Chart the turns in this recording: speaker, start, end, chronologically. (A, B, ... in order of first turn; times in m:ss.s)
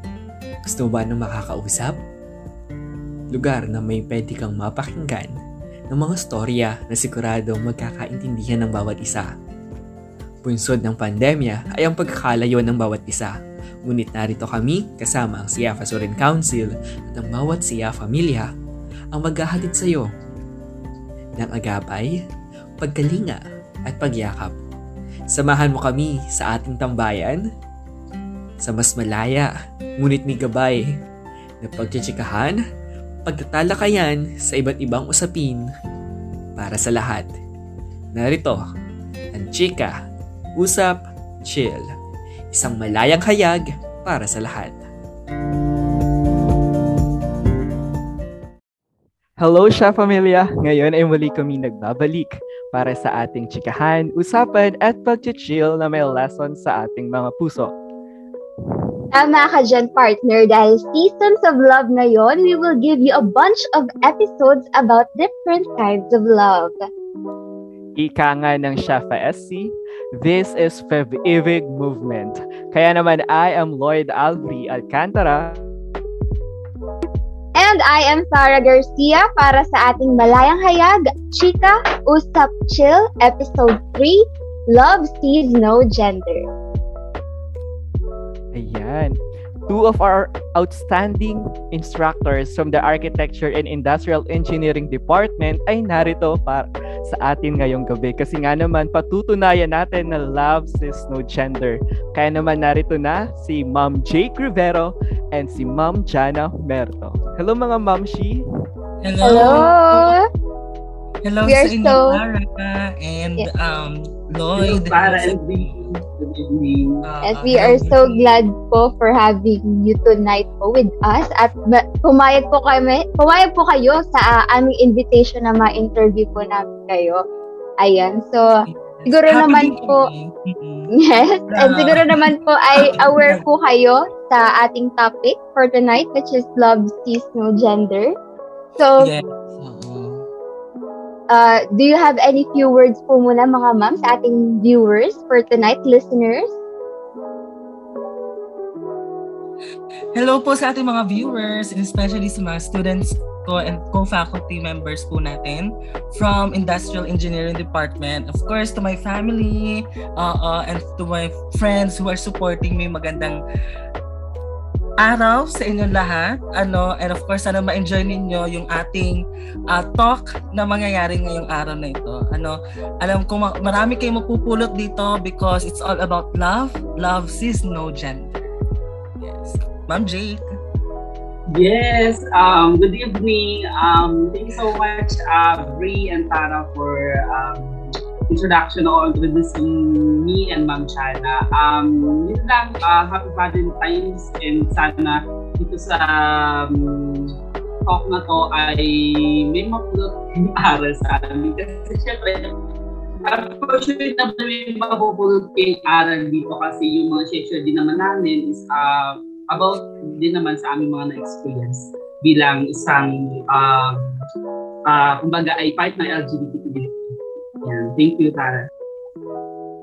0:00.6-0:02.0 A
0:03.3-0:05.3 A
0:05.9-0:09.3 A
0:10.4-0:18.5 A
0:19.1-0:20.1 A
0:21.4-0:22.2 A
0:22.8-0:24.5 A
0:25.3-0:27.4 A
0:28.6-0:30.8 A
0:31.6-0:32.6 A
0:33.2-0:35.7 A
0:36.6-0:37.3 A
0:38.1-0:38.6 A
0:39.3-0:40.0 A
0:40.6-0:42.0 A
0:42.5-0:44.8 A
0:49.4-0:57.7 B
0:59.1-1:06.9 C
1:08.0-1:15.6 B
1:17.6-1:26.5 C
1:28.6-1:48.4 B
1:49.0-1:50.1 D
1:49.2-1:50.2 C
1:51.2-1:55.8 D
1:51.5-1:52.2 C
1:54.6-1:57.0 E
1:57.0-1:58.2 D
1:57.2-2:07.2 C
2:07.8-2:10.1 C
2:08.7-2:10.9 D
2:11.0-2:18.1 C
2:11.5-2:13.4 D
2:18.8-2:19.1 C
2:19.0-2:20.3 D
2:21.3-2:26.5 C
2:30.1-2:43.4 D
2:45.0-2:58.4 D
2:59.2-3:00.4 D
3:01.6-3:22.5 E
3:23.2-3:34.0 E
3:34.9-3:38.7 E